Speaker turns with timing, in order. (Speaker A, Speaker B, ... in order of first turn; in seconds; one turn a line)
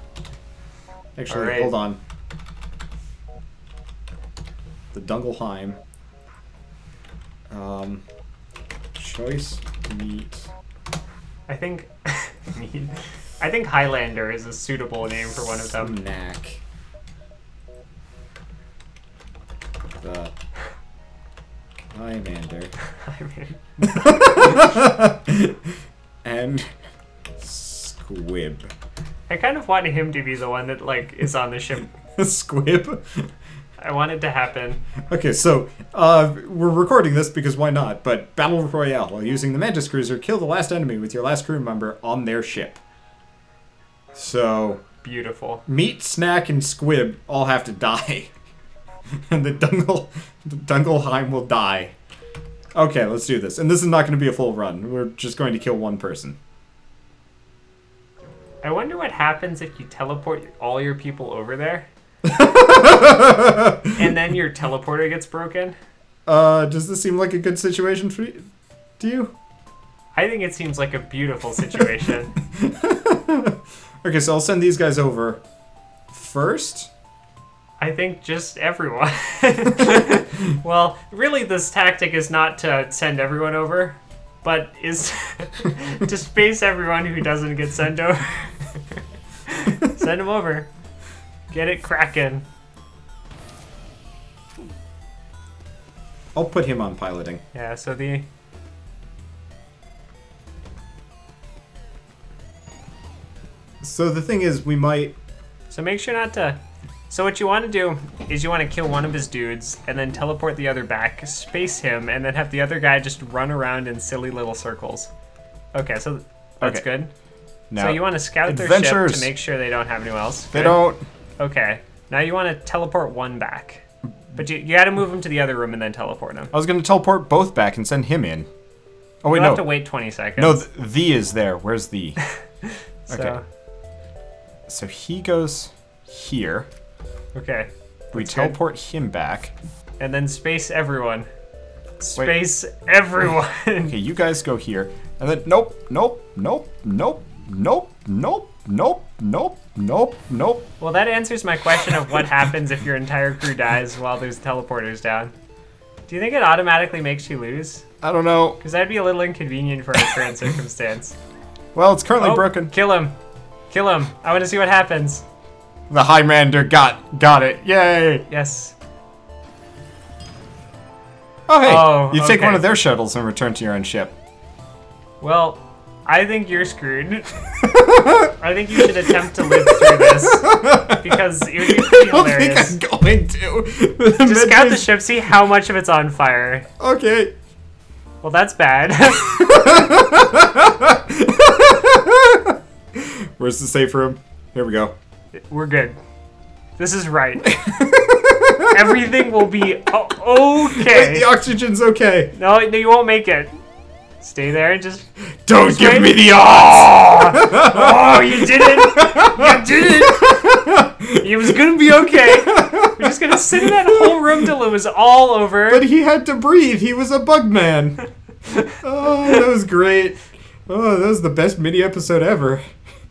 Speaker A: 1.2-2.0
Speaker B: 1.3-1.7
Speaker A: 4.9-5.8
Speaker A: 7.5-8.0
Speaker A: 8.9-10.5
Speaker B: 11.5-16.0
Speaker A: 15.8-16.6
Speaker A: 20.0-20.3
Speaker A: 21.9-22.7
Speaker B: 22.9-24.6
Speaker A: 23.8-25.6
Speaker A: 26.2-26.7
Speaker A: 27.4-28.7
Speaker B: 29.3-31.9
Speaker A: 32.0-33.3
Speaker B: 33.8-34.8
Speaker A: 35.1-42.8
Speaker A: 44.1-44.8
Speaker B: 45.0-45.6
Speaker A: 45.7-48.3
Speaker A: 49.3-51.9
Speaker A: 52.8-56.4
Speaker B: 58.6-61.9
Speaker A: 62.2-64.1
Speaker B: 64.0-65.8
Speaker A: 66.3-68.5
Speaker A: 69.0-69.3
Speaker B: 70.2-72.4
Speaker A: 72.5-75.4
Speaker A: 76.1-76.9
Speaker B: 77.8-90.7
Speaker B: 91.5-92.4
Speaker A: 96.3-97.4
Speaker B: 97.5-98.3
Speaker A: 103.8-105.2
Speaker B: 105.7-115.1
Speaker B: 115.7-117.1
Speaker A: 116.6-116.9
Speaker A: 117.7-119.3
Speaker B: 117.8-120.9
Speaker A: 120.5-121.0
Speaker B: 121.4-123.8
Speaker B: 124.3-126.5
Speaker A: 126.5-128.5
Speaker A: 129.2-129.8
Speaker B: 129.3-130.6
Speaker A: 130.4-132.2
Speaker B: 132.7-133.4
Speaker A: 133.1-133.4
Speaker A: 134.7-136.7
Speaker B: 137.3-138.6
Speaker A: 138.1-139.5
Speaker B: 140.0-141.3
Speaker B: 142.0-143.9
Speaker A: 143.9-150.7
Speaker B: 150.8-155.3
Speaker B: 156.1-157.9
Speaker A: 158.0-158.6
Speaker B: 158.6-161.2
Speaker A: 161.8-162.7
Speaker B: 162.2-163.2
Speaker B: 163.7-165.2
Speaker A: 165.9-168.2
Speaker B: 168.3-168.7
Speaker A: 171.5-174.1
Speaker B: 171.6-172.8
Speaker B: 175.2-177.4
Speaker A: 177.6-185.0
Speaker B: 178.4-182.8
Speaker B: 184.2-186.7
Speaker A: 186.8-187.3
Speaker B: 188.2-189.7
Speaker A: 189.2-194.9
Speaker B: 195.5-196.0
Speaker B: 196.8-197.5
Speaker A: 197.5-199.1
Speaker B: 198.7-201.3
Speaker A: 200.7-202.3
Speaker B: 202.3-203.6
Speaker B: 204.2-215.8
Speaker A: 205.5-211.3
Speaker A: 212.1-214.5
Speaker A: 215.7-218.0
Speaker A: 218.6-222.6